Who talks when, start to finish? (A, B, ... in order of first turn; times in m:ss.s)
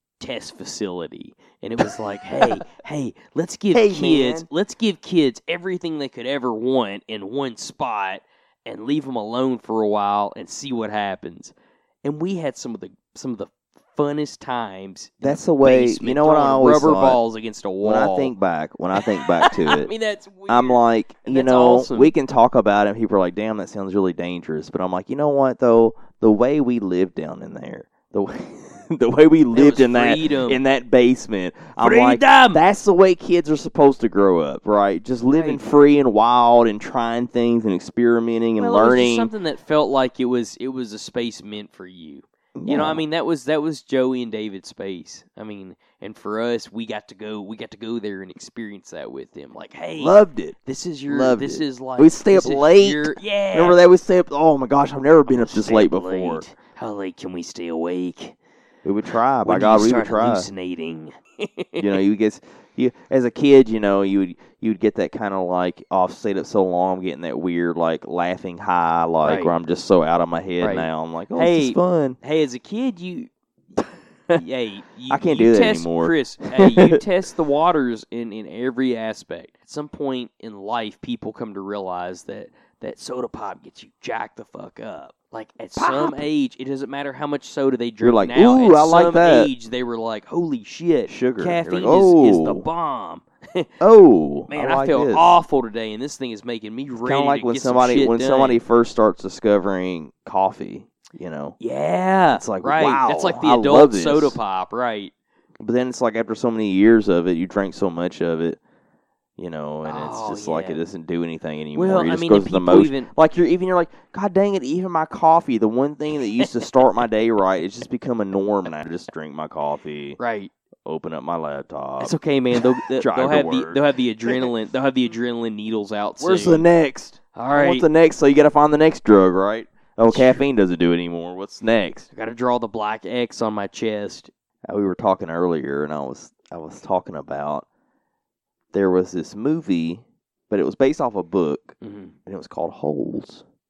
0:00.2-0:18.3 A
0:01.8-0:02.6 B
0:03.7-0:04.5 B
0:15.2-0:17.2 B
0:17.8-0:19.9 B
0:19.0-0:22.1 A
0:20.5-0:39.3 B
0:29.5-0:30.6 A
0:31.8-0:32.6 A
0:35.3-0:35.7 A
0:38.6-0:53.8 A
0:42.6-0:43.0 B
0:50.0-0:56.4 B
0:55.3-0:58.4 A
0:58.8-1:00.5 B
0:59.4-1:02.0 A
1:01.8-1:12.2 B
1:09.2-1:09.5 A
1:10.6-1:13.8 A
1:14.3-1:33.7 A
1:15.1-1:17.0 B
1:25.8-1:26.2 B
1:28.0-1:29.5 B
1:31.1-1:32.7 B
1:33.8-1:35.4 B
1:34.5-1:38.6 A
1:37.0-1:41.6 B
1:41.6-1:45.1 A
1:42.3-1:44.4 B
1:45.6-1:48.6 B
1:49.4-2:00.2 B
1:49.8-1:50.8 A
1:51.8-1:53.1 A
2:00.2-2:00.5 A
2:00.9-2:04.5 B
2:02.0-2:06.7 A
2:06.2-2:12.1 B
2:07.4-2:07.9 A
2:10.1-2:10.4 A
2:12.1-2:14.3 A
2:14.7-2:17.7 B
2:18.7-2:23.4 B
2:21.8-2:22.2 A